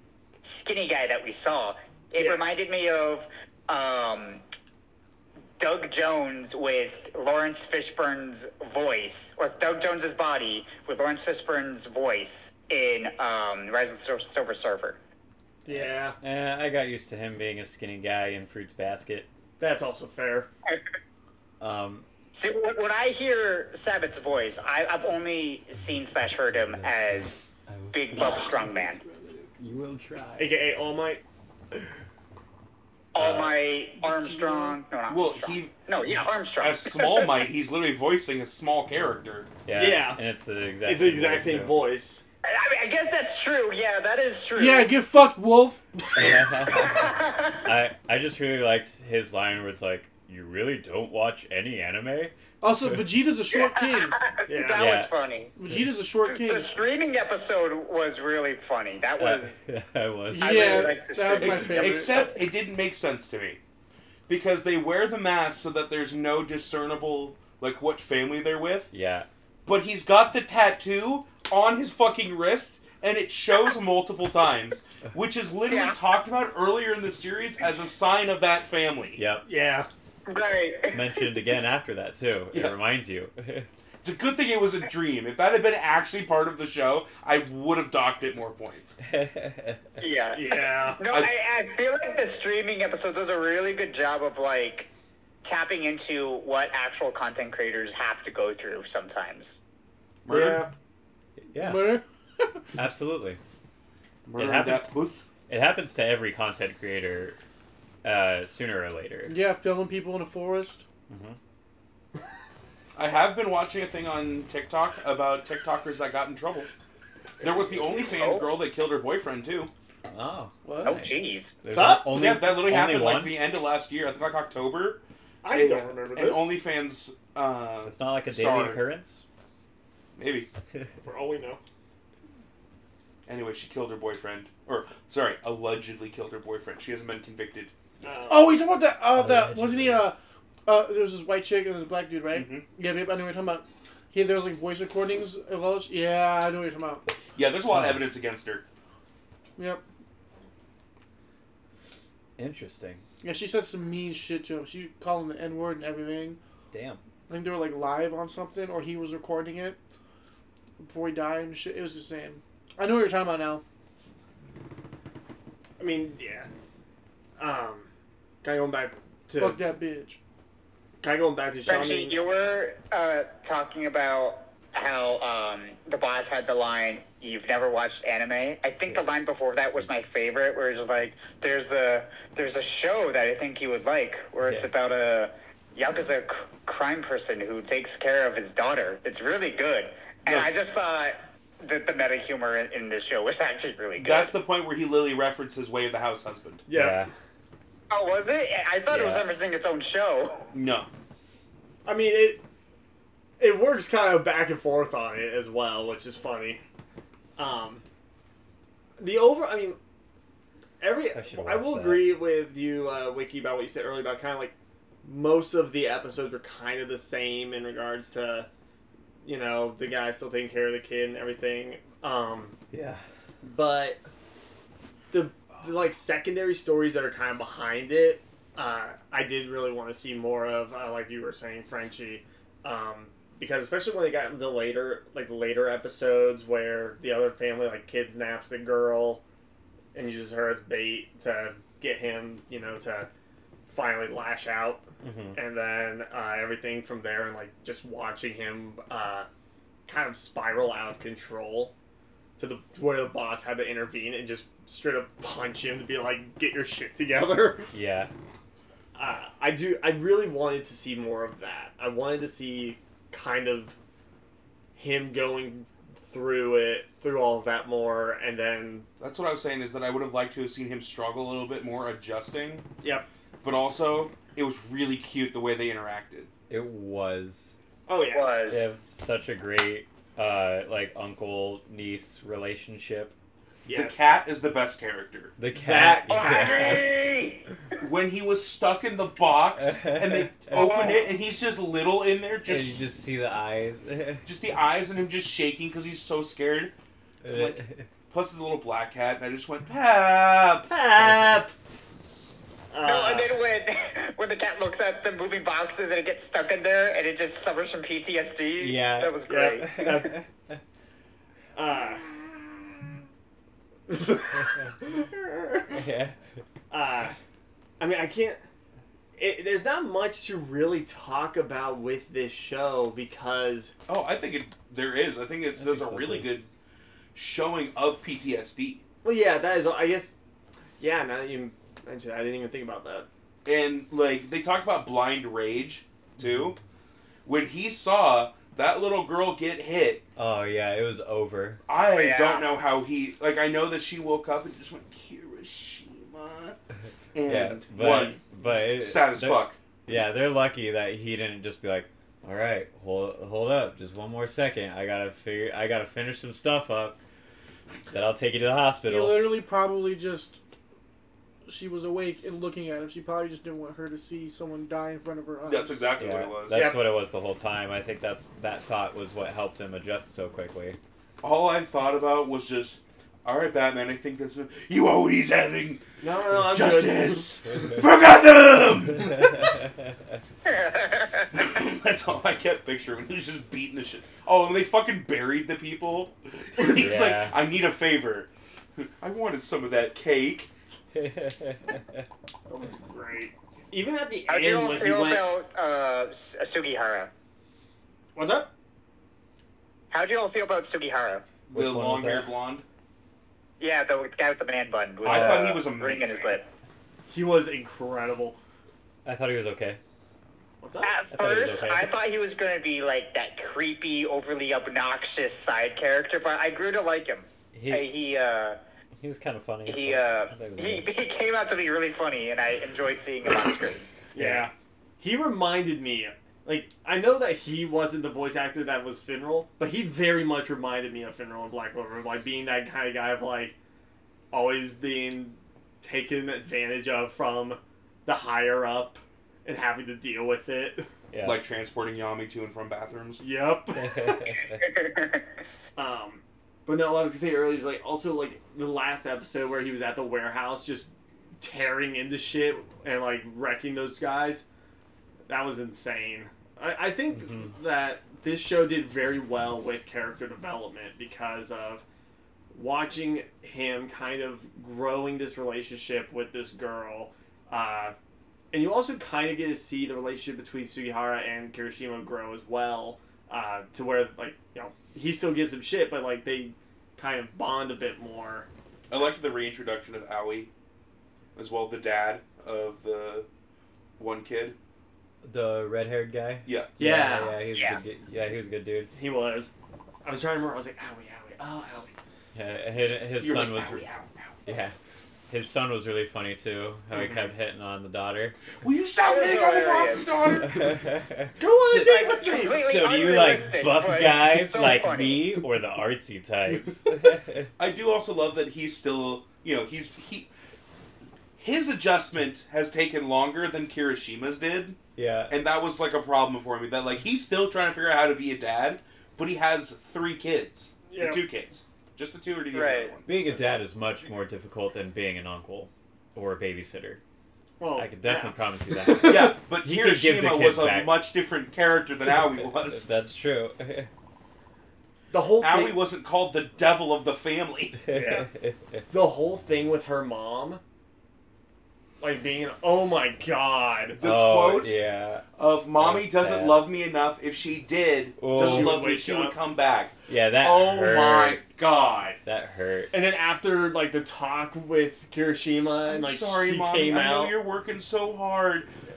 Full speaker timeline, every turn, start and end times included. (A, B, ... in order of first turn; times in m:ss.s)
0:00.4-0:04.4 A
0:02.2-0:02.4 B
0:05.6-0:15.0 A
0:15.6-0:19.3 C
0:15.7-0:16.2 B
0:19.6-0:20.5 B
0:21.6-0:22.0 C
0:22.3-0:27.4 A
0:26.5-0:28.5 C
0:27.9-0:29.0 A
0:29.6-0:30.6 C
0:30.4-0:31.2 B
0:33.1-0:37.4 A
0:33.2-0:33.5 C
0:34.3-0:34.8 D
0:35.1-0:35.8 E
0:36.6-0:39.5 E
0:39.6-0:41.8 C
0:39.7-0:40.2 B
0:40.8-0:42.2 B
0:42.4-0:44.9 A
0:44.5-0:46.4 D
0:46.2-0:47.1 C
0:46.7-0:47.6 A
0:47.6-0:52.3 C
0:52.6-0:54.2 D
0:53.5-0:55.6 A
0:54.5-0:54.9 B
0:54.7-0:55.1 C
0:55.6-0:56.8 D
0:56.3-0:59.6 A
0:59.2-1:01.0 C
1:00.3-1:02.3 D
1:00.3-1:02.3 A
1:01.4-1:03.6 E
1:04.3-1:08.9 E
1:08.9-1:09.3 C
1:09.6-1:19.2 E
1:15.7-1:16.0 A
1:19.2-1:19.4 C
1:19.4-1:19.9 B
1:20.3-1:21.3 A
1:20.9-1:23.7 C
1:24.0-1:29.0 E
1:29.1-1:29.8 C
1:30.0-1:34.9 A
1:30.3-1:31.0 B
1:31.1-1:31.3 E
1:35.4-1:39.6 A
1:40.2-1:40.7 E
1:40.3-1:40.7 B
1:41.4-1:42.0 C
1:41.6-1:42.6 D
1:42.8-1:43.4 C
1:44.2-1:45.3 E
1:44.4-1:44.9 B
1:45.5-1:47.4 C
1:48.0-1:49.4 C
1:49.3-1:50.8 D
1:51.1-1:51.4 C
1:52.9-1:56.7 E
1:57.4-1:59.7 E
1:58.0-1:58.4 A
2:00.1-2:03.4 C
2:00.7-2:01.0 D
2:00.8-2:01.6 A
2:01.7-2:02.4 B
2:02.1-2:08.8 E
2:05.4-2:06.6 B
2:07.8-2:09.2 C
2:10.2-2:10.5 E
2:11.0-2:11.6 B
2:13.3-2:17.7 E
2:18.0-2:18.5 B
2:18.3-2:27.0 D
2:19.1-2:20.1 C
2:22.3-2:22.6 E
2:27.3-2:28.6 E
2:27.7-2:28.0 C
2:29.6-2:29.8 D
2:32.4-2:33.0 C
2:33.2-2:36.4 D
2:36.7-2:37.0 C
2:37.3-2:39.8 D
2:40.8-2:43.6 D
2:45.8-2:46.5 B
2:47.4-2:47.9 B
2:48.4-2:49.6 B
2:49.4-2:50.2 D
2:51.0-2:52.2 B
2:51.6-3:14.3 A
3:04.4-3:04.7 C
3:14.0-3:16.6 E
3:16.7-3:17.1 B
3:16.7-3:17.1 C
3:17.9-3:20.5 A
3:18.9-3:19.3 C
3:20.5-3:20.9 E
3:21.8-3:22.4 B
3:23.4-3:26.6 B
3:27.4-3:27.8 B
3:29.0-3:29.8 B
3:30.8-3:38.5 B
3:31.1-3:32.1 C
3:39.2-3:42.6 B
3:42.7-3:43.0 C
3:43.4-3:44.0 B
3:45.1-3:59.2 B
3:59.9-4:03.1 B
4:03.7-4:09.3 B
4:05.0-4:05.4 C
4:09.9-4:11.7 B
4:12.4-4:17.7 B
4:17.7-4:18.1 C
4:18.9-4:23.8 B
4:24.7-4:28.9 B
4:29.0-4:32.6 E
4:32.8-4:33.1 B
4:33.4-4:36.3 E
4:36.5-4:37.5 C
4:37.9-4:38.3 B
4:38.1-4:38.7 A
4:38.5-4:43.1 C
4:43.6-4:44.0 B
4:43.7-4:45.3 E
4:45.4-4:47.0 C
4:45.5-4:46.7 B
4:46.1-4:47.4 A
4:47.8-4:52.8 E
4:49.6-4:50.8 C
4:50.5-4:51.0 A
4:52.4-4:54.2 C
4:54.2-4:56.7 E
4:57.2-4:57.8 C
4:58.1-5:00.7 E
5:00.7-5:01.5 B
5:01.0-5:01.4 C
5:02.7-5:03.4 B
5:02.8-5:09.8 A
5:08.6-5:10.2 C
5:09.3-5:10.2 B
5:11.5-5:12.4 B
5:13.9-5:15.8 B
5:15.7-5:16.2 C
5:16.7-5:17.2 B
5:17.8-5:18.4 B
5:19.2-5:23.7 B
5:23.9-5:26.5 E
5:25.6-5:26.3 C
5:27.1-5:28.8 E
5:29.0-5:30.2 B
5:30.8-5:33.1 B
5:33.4-5:36.6 E
5:37.2-5:40.0 E
5:40.2-5:41.6 C
5:41.7-5:46.6 E
5:41.9-5:42.5 A
5:47.1-5:49.6 E
5:47.2-5:57.0 C
5:57.9-5:59.4 C
5:58.8-6:00.4 D
6:01.5-6:05.9 D
6:05.4-6:06.7 E
6:06.0-6:10.8 C
6:06.5-6:06.8 B
6:11.2-6:19.5 E
6:16.0-6:17.3 B
6:20.4-6:21.4 A
6:21.3-6:30.5 E
6:26.7-6:27.3 C
6:30.9-6:31.8 C
6:32.5-6:35.3 B
6:34.3-6:37.1 A
6:38.1-6:38.5 B
6:39.9-6:41.2 A
6:41.5-6:42.6 E
6:41.5-6:42.3 C
6:43.6-6:46.5 A
6:45.0-6:46.4 E
6:45.1-6:45.4 C
6:47.1-6:48.4 B
6:49.0-6:49.8 C
6:50.6-6:51.0 B
6:50.8-6:58.6 A
6:51.1-6:51.9 C
6:57.5-6:57.9 C
6:59.0-7:00.9 C
6:59.6-7:03.9 A
7:04.1-7:13.6 B
7:04.2-7:04.5 C
7:14.3-7:20.9 B
7:21.1-7:21.4 C
7:21.2-7:23.2 E
7:23.2-7:24.4 B
7:23.8-7:24.6 C
7:24.6-7:25.2 A
7:25.8-7:34.4 B
7:35.3-7:41.8 B
7:37.2-7:37.5 C
7:42.5-7:47.9 B
7:48.5-7:58.5 B
7:58.9-8:00.5 E
8:01.4-8:03.3 E
8:04.0-8:04.6 E
8:05.2-8:08.9 C
8:06.4-8:06.7 E
8:06.8-8:07.4 B
8:07.5-8:07.8 A
8:08.9-8:12.0 B
8:12.3-8:13.9 C
8:13.2-8:14.4 E
8:14.4-8:14.7 C
8:15.3-8:18.3 C
8:18.6-8:20.8 E
8:19.0-8:20.2 A
8:20.5-8:27.5 C
8:21.4-8:23.2 B
8:21.8-8:25.4 A
8:27.6-8:30.3 E
8:31.4-8:34.8 E
8:35.0-8:35.4 C
8:35.3-8:43.4 E
8:40.9-8:41.2 B
8:42.5-8:43.0 A
8:43.0-8:47.0 C
8:47.6-8:49.3 B
8:47.8-8:51.0 C
8:49.0-8:52.9 E
8:52.4-8:53.9 C
8:55.1-8:55.8 B
8:55.4-8:57.8 E
8:57.8-8:58.8 C
8:57.9-8:58.3 B
8:58.9-9:00.6 B
9:02.0-9:04.0 B
9:03.9-9:04.8 E
9:04.0-9:05.2 C
9:05.4-9:12.2 E
9:05.8-9:06.6 C
9:08.2-9:08.8 C
9:08.4-9:09.4 B
9:10.1-9:11.4 C
9:12.2-9:12.9 C
9:12.9-9:17.3 B
9:15.9-9:18.7 E